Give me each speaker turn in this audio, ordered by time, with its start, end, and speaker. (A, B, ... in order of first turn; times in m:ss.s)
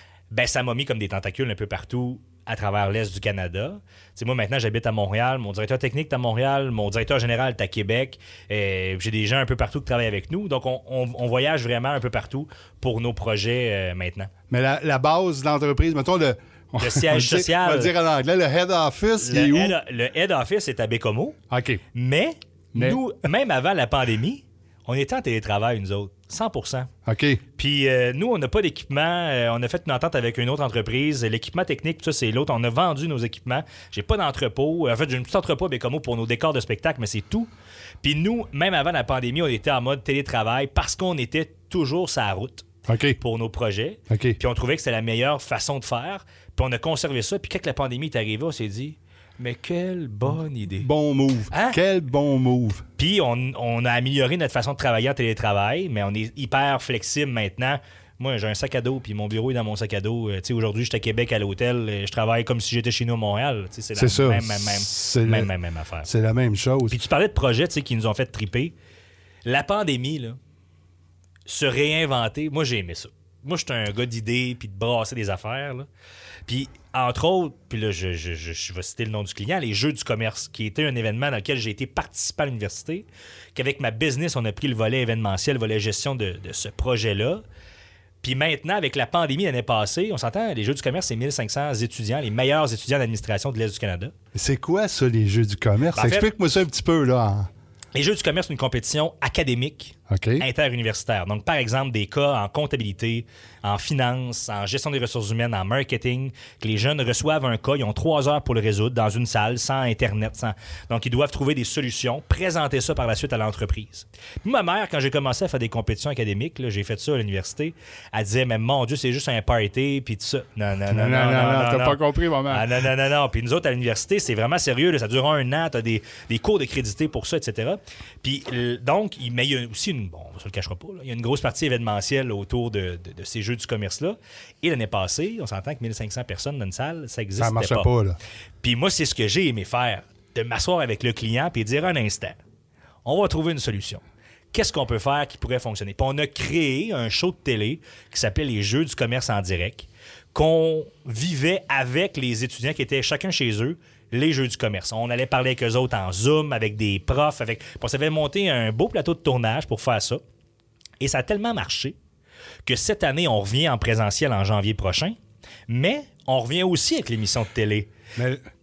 0:00.3-0:14.3 A
0:14.5-0:19.7 B
0:16.8-0:17.9 A
0:19.2-0:21.4 A
0:21.5-0:21.8 B
0:21.9-0:26.9 A
0:22.7-0:23.0 B
0:27.0-0:27.4 B
0:27.6-0:37.5 A
0:38.0-0:50.9 A
0:42.9-0:43.2 B
0:44.1-0:44.4 B
0:50.8-0:52.8 B
0:51.5-0:51.8 A
0:53.0-1:06.1 A
1:04.0-1:05.5 B
1:06.0-1:07.0 B
1:06.9-1:08.7 A
1:09.4-1:10.4 A
1:11.4-1:15.9 A
1:16.5-1:27.4 A
1:28.2-1:34.1 A
1:34.3-1:37.5 B
1:35.9-1:36.3 A
1:37.9-2:17.9 A
1:40.1-1:40.4 B
2:00.9-2:02.7 B
2:17.4-2:18.2 B
2:18.6-2:22.4 A
2:23.0-2:40.2 A
2:41.0-2:42.0 A
2:42.6-2:45.2 A
2:45.7-2:47.9 A
2:48.2-2:48.4 B